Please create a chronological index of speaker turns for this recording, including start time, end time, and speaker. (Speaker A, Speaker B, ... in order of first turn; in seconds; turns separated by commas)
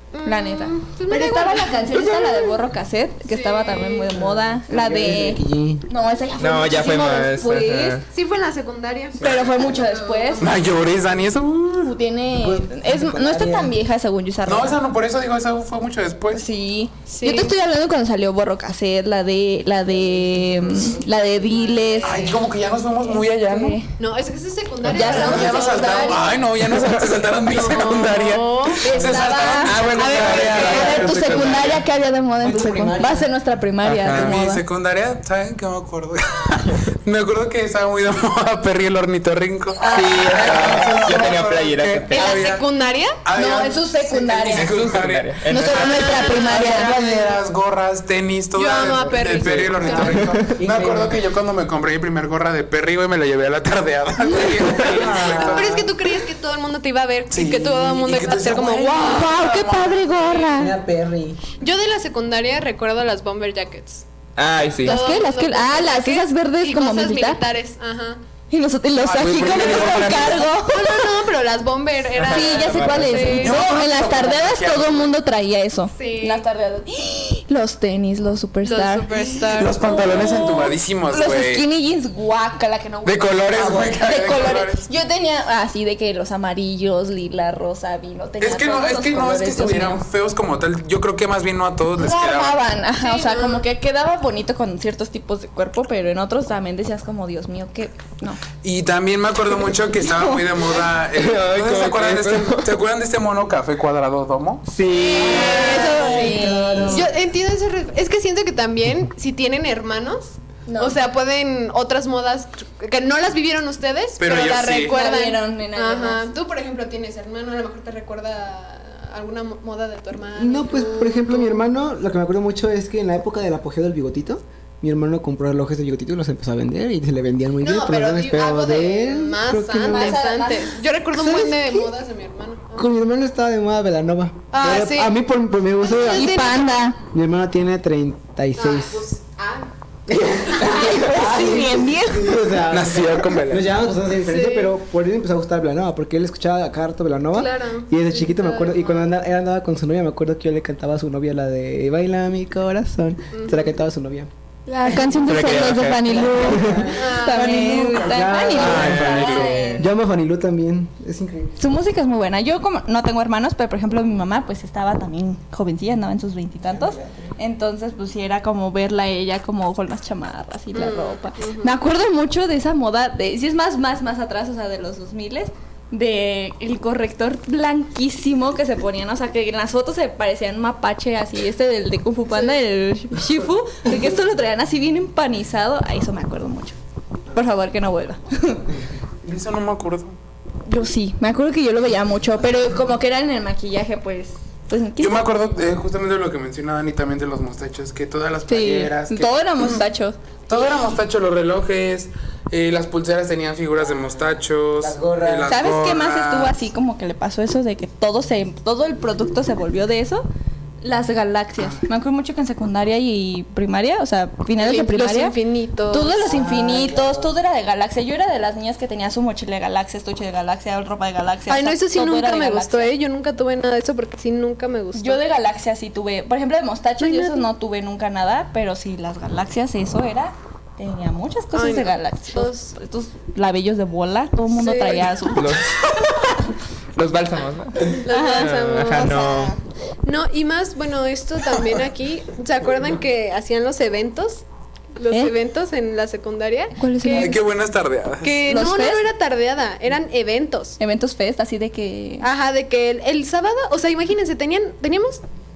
Speaker A: 0.1-2.1, Speaker B: 0.2-8.0, Speaker C: 2.1-2.5, Speaker A: 3.2-4.2, Speaker D: 4.5-5.8, Speaker C: 6.4-8.0, Speaker A: 8.1-10.6, Speaker D: 9.1-9.8, Speaker B: 9.2-10.6, Speaker E: 10.4-11.9, Speaker B: 11.8-14.8, Speaker D: 12.3-13.8, Speaker E: 14.4-16.4, Speaker B: 16.3-22.3, Speaker A: 17.1-17.5, Speaker D: 19.9-21.1, Speaker A: 21.3-22.3, Speaker E: 22.0-23.8, Speaker B: 23.0-23.9, Speaker A: 24.0-26.4, Speaker E: 24.8-31.8, Speaker B: 24.9-26.4, Speaker C: 26.6-27.1, Speaker A: 27.5-29.3, Speaker B: 28.8-34.6, Speaker C: 29.6-31.8, Speaker A: 30.0-31.0, Speaker D: 32.4-33.3, Speaker C: 33.8-34.4, Speaker E: 34.1-42.6, Speaker B: 39.8-41.0, Speaker C: 39.9-42.4, Speaker A: 42.1-43.2, Speaker E: 43.2-55.9, Speaker B: 43.3-44.9, Speaker C: 44.5-46.9, Speaker B: 45.4-46.9, Speaker A: 45.8-47.4, Speaker A: 48.5-50.3, Speaker D: 49.0-51.2, Speaker C: 50.0-50.5, Speaker D: 54.9-55.9, Speaker A: 55.1-59.4, Speaker E: 57.3-60.1, Speaker B: 59.0-60.7, Speaker A: 60.3-60.6, Speaker D: 60.5-61.5, Speaker A: 61.6-64.0, Speaker C: 64.4-65.0, Speaker A: 64.8-68.2, Speaker B: 64.8-67.4, Speaker B: 68.5-71.1, Speaker E: 69.0-70.5, Speaker A: 70.5-73.6, Speaker C: 72.1-73.5, Speaker B: 72.3-79.1, Speaker E: 73.3-75.1, Speaker A: 75.9-76.4, Speaker A: 78.6-80.3, Speaker E: 79.4-81.7, Speaker B: 79.8-90.1, Speaker E: 83.0-84.9, Speaker E: 88.4-92.6, Speaker B: 92.0-98.4, Speaker A: 93.0-93.6, Speaker E: 98.6-104.6, Speaker B: 100.0-100.7, Speaker C: 101.1-102.7, Speaker C: 104.7-105.8, Speaker A: 104.9-121.7, Speaker B: 105.1-107.1, Speaker D: 105.5-107.1, Speaker B: 110.7-111.0, Speaker E: 114.2-114.9, Speaker B: 114.8-116.2, Speaker D: 120.3-130.2, Speaker A: 127.6-132.9, Speaker B: 129.9-130.7, Speaker D: 131.1-131.9, Speaker D: 132.8-136.5, Speaker A: 134.5-135.2, Speaker A: 135.8-136.7, Speaker B: 136.1-137.0, Speaker D: 137.0-139.0, Speaker A: 138.6-139.7, Speaker D: 140.1-154.3, Speaker A: 140.5-140.9, Speaker B: 140.6-142.5, Speaker E: 142.7-143.7, Speaker A: 144.2-144.7, Speaker A: 147.3-149.2, Speaker A: 153.3-153.7, Speaker B: 154.7-159.9, Speaker C: 155.2-156.8, Speaker D: 156.1-161.6, Speaker A: 156.9-157.7, Speaker E: 158.6-159.7, Speaker C: 158.6-159.5, Speaker B: 161.6-186.7, Speaker D: 166.6-167.3, Speaker A: 170.7-171.8, Speaker B: 187.3-188.6, Speaker E: 189.2-190.2, Speaker B: 190.7-195.3, Speaker E: 195.0-199.8, Speaker B: 198.5-200.2, Speaker E: 200.5-206.6, Speaker D: 204.8-205.7, Speaker B: 205.5-210.3, Speaker B: 210.8-215.3, Speaker A: 214.6-216.3, Speaker B: 215.9-222.9, Speaker D: 216.2-217.3, Speaker A: 221.5-225.2, Speaker B: 224.9-235.6, Speaker A: 227.0-227.4, Speaker A: 231.5-232.8, Speaker A: 234.5-235.1, Speaker C: 235.3-235.8, Speaker C: 236.9-239.6, Speaker A: 238.0-244.4, Speaker B: 238.1-239.5, Speaker A: 244.9-247.4, Speaker B: 246.8-247.4, Speaker E: 247.1-248.4, Speaker A: 248.2-250.8, Speaker B: 248.5-249.1, Speaker B: 250.8-252.3, Speaker A: 252.2-255.2